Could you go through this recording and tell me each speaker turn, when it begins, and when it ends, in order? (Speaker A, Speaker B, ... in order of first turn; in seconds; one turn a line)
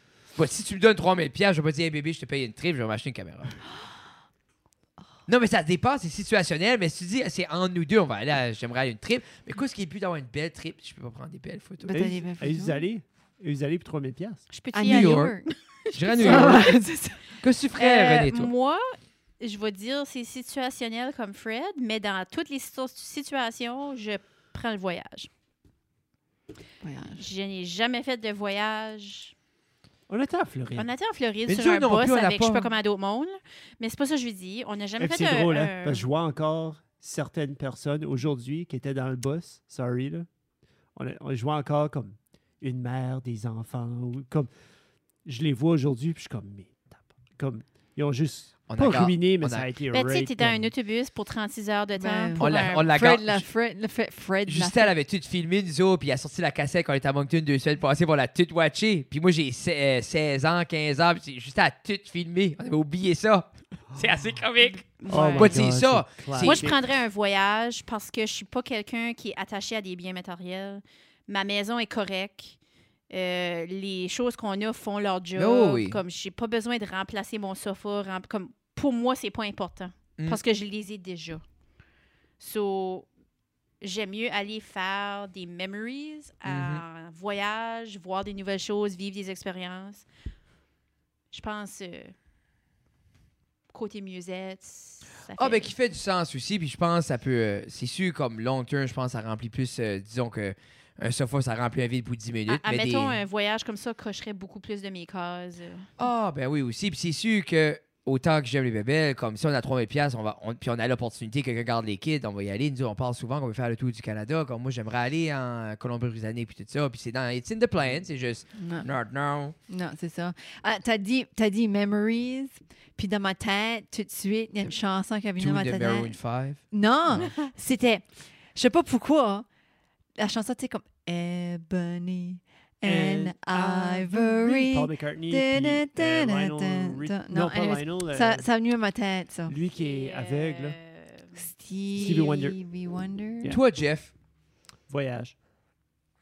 Speaker A: 0.4-3.6
Speaker A: 5.3-11.9
Speaker B: 11.8-12.8
Speaker C: 11.9-14.4
Speaker D: 14.5-16.7
Speaker B: 14.7-15.5
Speaker A: 14.8-15.3
Speaker A: 15.9-16.7
Speaker B: 16.2-17.4
Speaker A: 17.4-18.5
Speaker D: 17.8-25.3
Speaker B: 26.8-27.3
Speaker D: 27.2-29.3
Speaker C: 30.1-30.9
Speaker D: 30.8-36.1
Speaker A: 31.5-32.7
Speaker C: 35.0-40.3
Speaker C: 41.0-44.5
Speaker C: 45.2-50.7
Speaker A: 48.7-49.7
Speaker D: 49.9-52.9
Speaker B: 52.0-54.9
Speaker A: 52.4-53.5
Speaker A: 54.5-66.7
Speaker D: 64.7-65.6
Speaker C: 65.1-66.8
Speaker D: 66.4-72.6
Speaker D: 73.1-81.4
Speaker A: 75.3-76.0
Speaker D: 82.4-83.1
Speaker D: 83.8-90.1
Speaker A: 86.4-86.8
Speaker D: 91.3-92.1
Speaker D: 93.7-95.7
Speaker A: 95.4-103.2
Speaker D: 102.5-105.9
Speaker A: 106.0-119.5
Speaker B: 118.6-118.9
Speaker B: 119.7-126.2
Speaker A: 125.4-127.3
Speaker B: 126.7-129.5
Speaker B: 130.2-139.6
Speaker C: 132.8-138.5
Speaker C: 139.5-140.8
Speaker D: 139.7-141.5
Speaker B: 141.4-143.6
Speaker C: 141.9-142.6
Speaker A: 143.5-144.1
Speaker C: 144.9-145.3